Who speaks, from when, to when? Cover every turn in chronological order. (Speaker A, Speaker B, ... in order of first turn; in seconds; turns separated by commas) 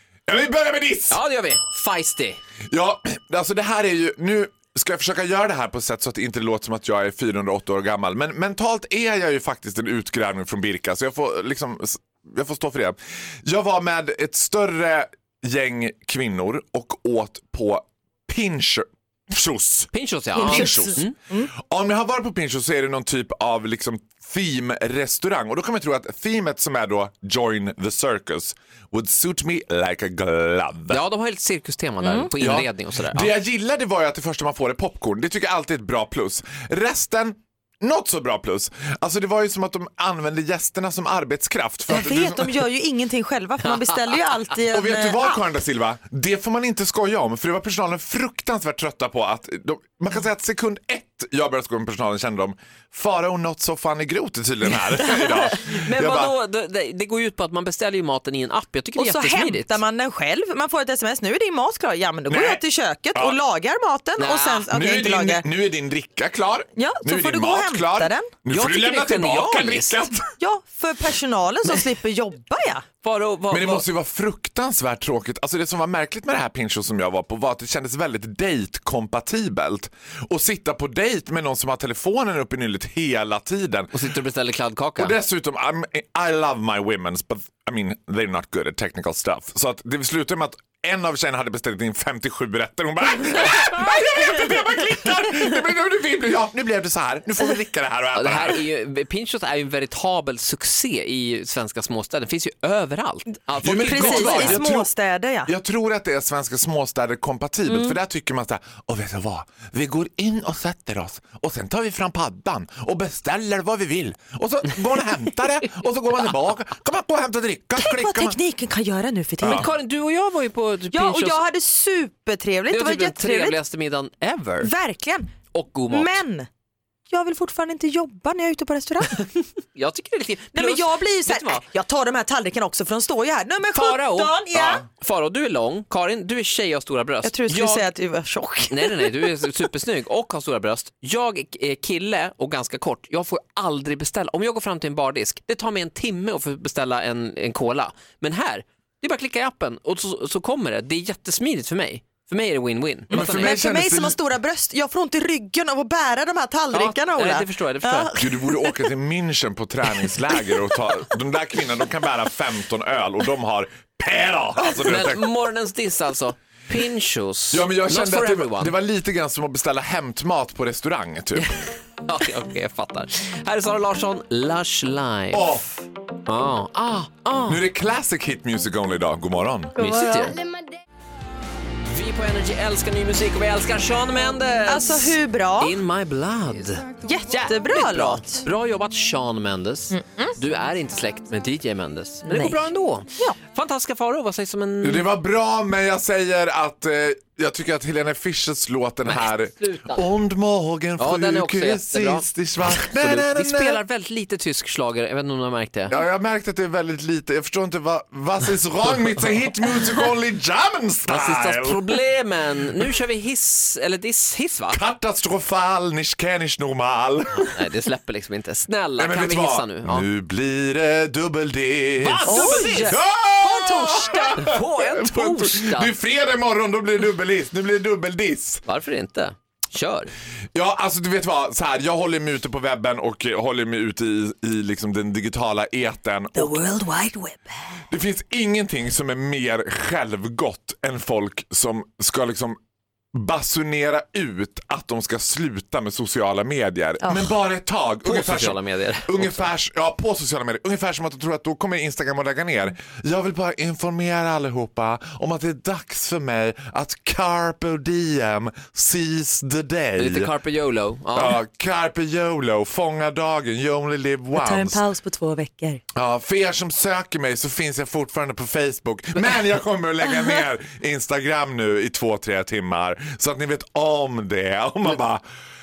Speaker A: 0.3-1.2, Speaker B: 1.1-2.4, Speaker A: 2.7-31.0, Speaker B: 19.9-21.1, Speaker C: 20.4-21.5, Speaker B: 30.9-33.3, Speaker C: 32.0-32.3, Speaker A: 32.4-42.5, Speaker C: 41.9-45.4, Speaker A: 44.7-56.3, Speaker B: 55.5-59.8, Speaker C: 59.0-65.4, Speaker A: 62.3-62.6, Speaker A: 63.1-63.4, Speaker B: 64.2-64.7, Speaker A: 64.7-70.2, Speaker C: 66.8-68.3, Speaker B: 68.5-70.0, Speaker C: 70.4-72.8, Speaker B: 73.0-73.8, Speaker A: 73.5-83.9, Speaker B: 83.9-85.1, Speaker A: 85.0-98.6, Speaker B: 98.1-104.6, Speaker A: 103.6-104.9, Speaker C: 103.8-105.5, Speaker A: 105.5-118.4, Speaker C: 107.7-108.0, Speaker C: 117.8-119.7, Speaker A: 119.4-119.7, Speaker B: 119.4-121.4, Speaker C: 120.9-123.6, Speaker B: 122.7-124.7, Speaker C: 124.6-125.2, Speaker B: 125.5-126.2, Speaker C: 125.9-126.5, Speaker C: 127.1-129.2, Speaker B: 129.7-131.6, Speaker C: 130.5-134.8, Speaker B: 133.7-137.9, Speaker A: 134.6-134.8, Speaker C: 137.2-139.3, Speaker B: 138.7-153.5, Speaker A: 153.1-154.2, Speaker C: 153.1-158.8, Speaker B: 156.7-158.2, Speaker A: 158.2-165.2, Speaker B: 164.8-168.7, Speaker A: 167.5-171.5, Speaker B: 171.3-175.5, Speaker A: 175.3-175.7, Speaker B: 176.2-177.6, Speaker A: 177.5-179.8, Speaker B: 179.8-180.4, Speaker C: 179.8-180.3, Speaker B: 181.8-195.1, Speaker C: 184.7-185.8, Speaker C: 187.0-188.4, Speaker C: 189.9-190.4, Speaker C: 192.2-192.6, Speaker A: 194.8-203.8, Speaker B: 199.0-200.0, Speaker B: 201.0-205.9, Speaker A: 205.9-211.9, Speaker B: 211.1-214.8, Speaker A: 214.7-217.6, Speaker B: 217.5-220.1, Speaker A: 219.0-228.6, Speaker B: 222.0-223.0, Speaker C: 222.2-224.4, Speaker B: 224.1-225.9, Speaker B: 228.6-230.1, Speaker A: 230.5-236.6, Speaker C: 236.3-237.6, Speaker A: 237.9-242.6, Speaker A: 243.1-260.3, Speaker C: 247.0-247.3, Speaker B: 248.0-249.5, Speaker B: 260.0-261.4, Speaker A: 261.1-264.8, Speaker C: 264.3-265.8, Speaker A: 265.9-275.2